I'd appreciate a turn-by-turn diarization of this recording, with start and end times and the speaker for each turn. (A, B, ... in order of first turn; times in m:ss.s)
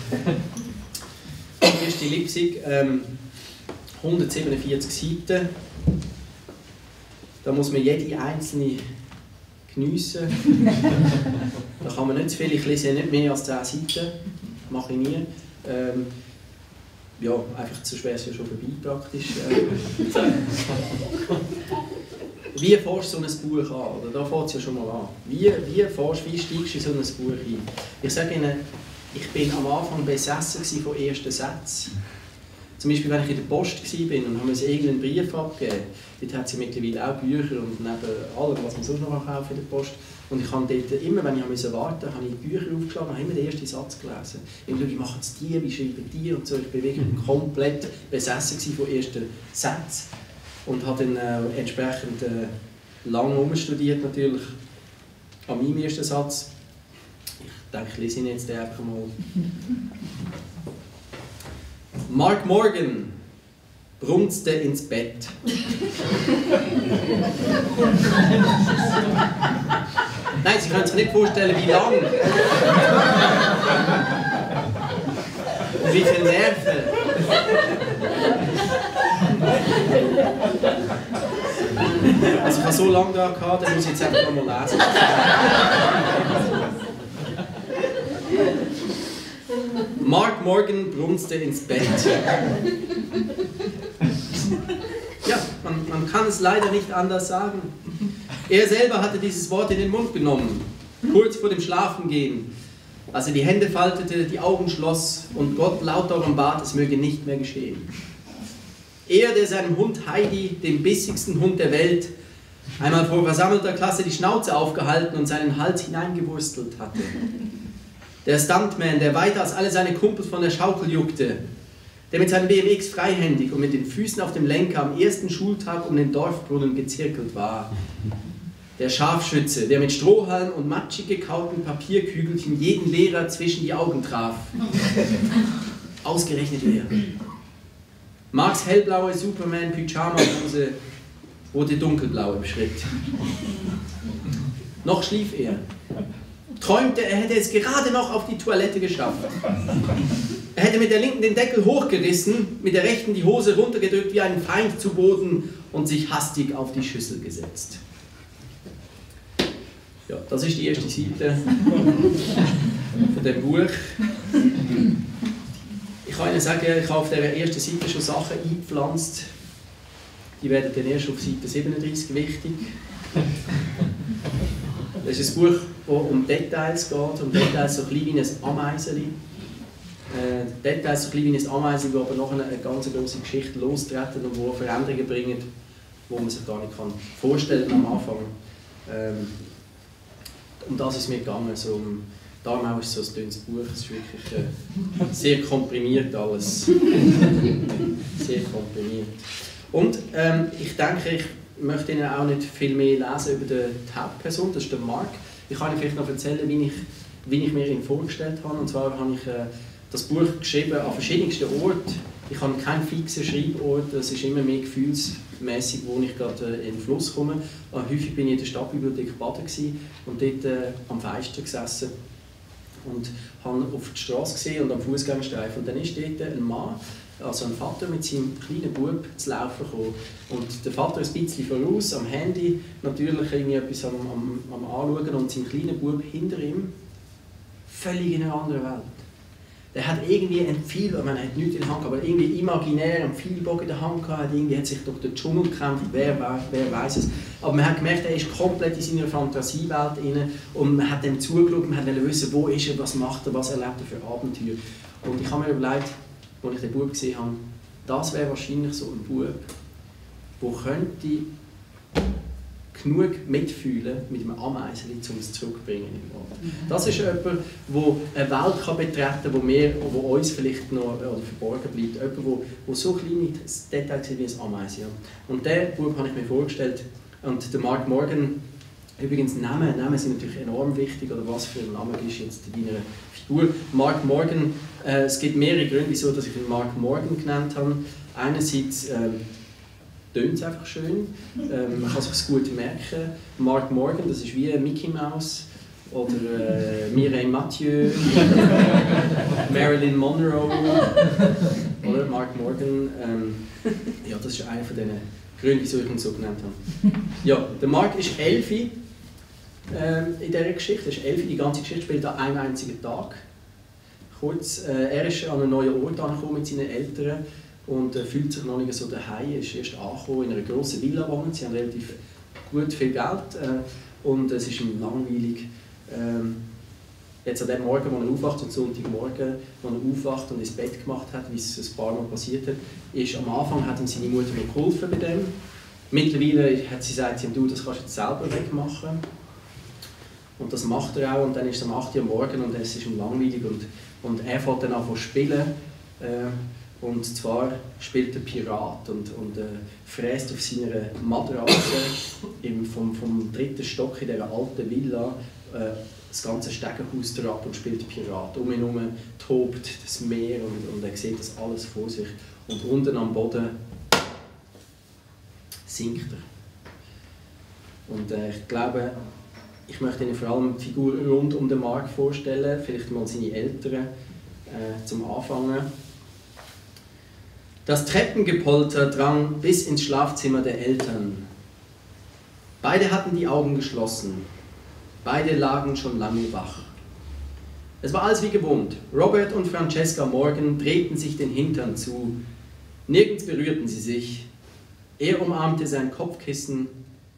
0:01.6-0:03.1 A
0:04.0-0:05.5 A
0:07.4-0:08.8 A
0:09.7-0:10.7 A
0:11.8-0:14.1 A
0:14.7-0:16.1 A
0:17.2-0:20.4 A
0:22.5-0:28.6 A
0:29.1-0:31.9 A
0:32.8-0:50.1 A
0:50.7-0:54.6 A
0:55.5-0:56.5 A
0:57.4-0:59.1 A
1:02.1-1:03.1 A
1:04.0-1:05.4 A
1:10.3-1:12.3 A
1:15.7-1:17.0 A
1:22.2-1:25.5 A
1:29.9-1:32.3 A
1:35.2-1:37.9 A
1:38.4-1:42.5 A
1:43.1-1:47.9 A
1:49.1-1:52.1 A
1:52.8-1:57.2 A
1:58.2-2:01.4 A
2:02.1-2:07.7 A
2:08.8-2:14.6 A
2:16.0-2:17.0 A
2:18.3-2:20.8 A
2:21.5-2:23.0 A
2:24.8-2:25.6 A
2:26.6-2:29.4 A
2:30.5-2:37.8 A
2:40.1-2:41.6 A
2:43.1-2:44.0 A
2:46.0-2:49.3 A
2:50.4-2:52.8 A
2:55.0-2:59.2 A
3:00.1-3:05.5 A
3:06.1-3:08.3 A
3:08.9-3:09.4 A
3:10.6-3:17.3 A
3:18.0-3:41.9 A
3:42.8-3:56.7 A
3:57.7-3:59.0 A
3:59.7-4:19.5 A
4:20.4-4:21.2 A
4:22.7-4:38.4 A
4:39.0-4:49.2 A
4:50.1-4:58.5 A
4:59.4-5:01.1 A
5:01.8-5:08.7 A
5:09.7-5:13.2 A
5:14.1-5:22.0 A
5:22.5-5:26.4 A
5:27.2-5:35.3 A
5:35.9-5:39.0 A
5:40.4-6:03.5 A
6:05.7-6:06.2 A
6:07.9-6:09.0 A
6:09.7-6:13.9 A
6:14.5-6:15.7 A
6:17.6-6:21.3 A
6:22.6-6:24.2 A
6:25.0-6:26.7 A
6:27.8-6:32.2 A
6:32.9-6:34.3 A
6:35.0-6:36.7 A